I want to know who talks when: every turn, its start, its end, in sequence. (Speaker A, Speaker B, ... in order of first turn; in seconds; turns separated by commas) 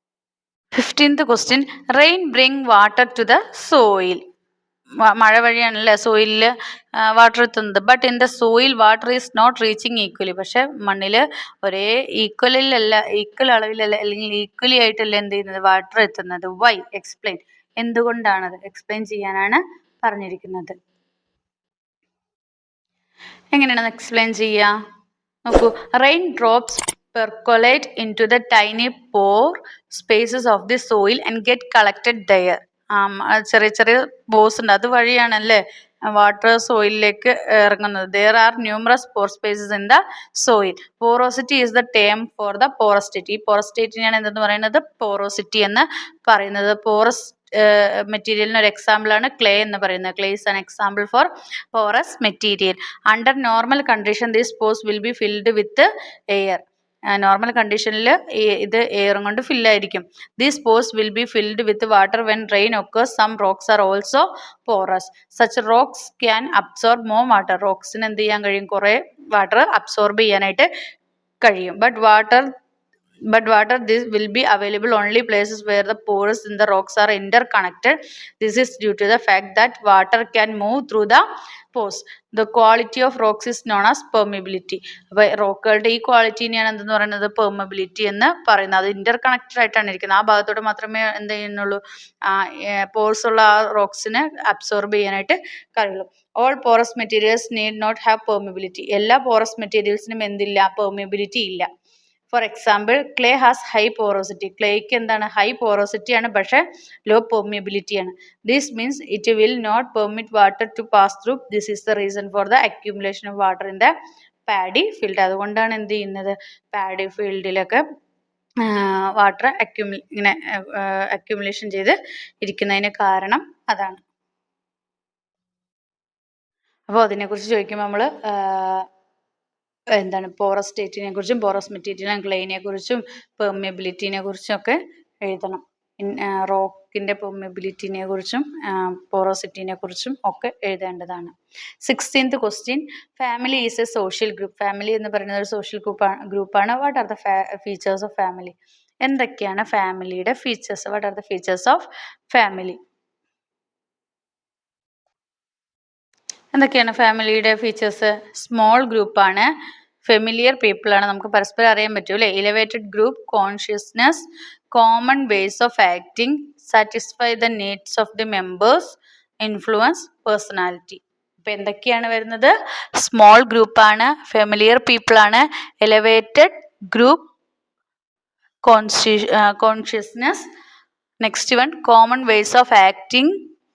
Speaker A: 0.8-4.2, Speaker A: 5.0-20.7, Speaker A: 23.5-24.7, Speaker A: 25.4-70.7, Speaker A: 71.4-72.5, Speaker A: 73.3-101.7, Speaker A: 102.3-113.9, Speaker A: 114.5-117.8, Speaker A: 118.6-124.0, Speaker A: 126.9-128.9, Speaker A: 130.0-152.8, Speaker A: 156.5-159.5, Speaker A: 160.0-177.2, Speaker A: 178.6-180.4, Speaker A: 181.2-183.4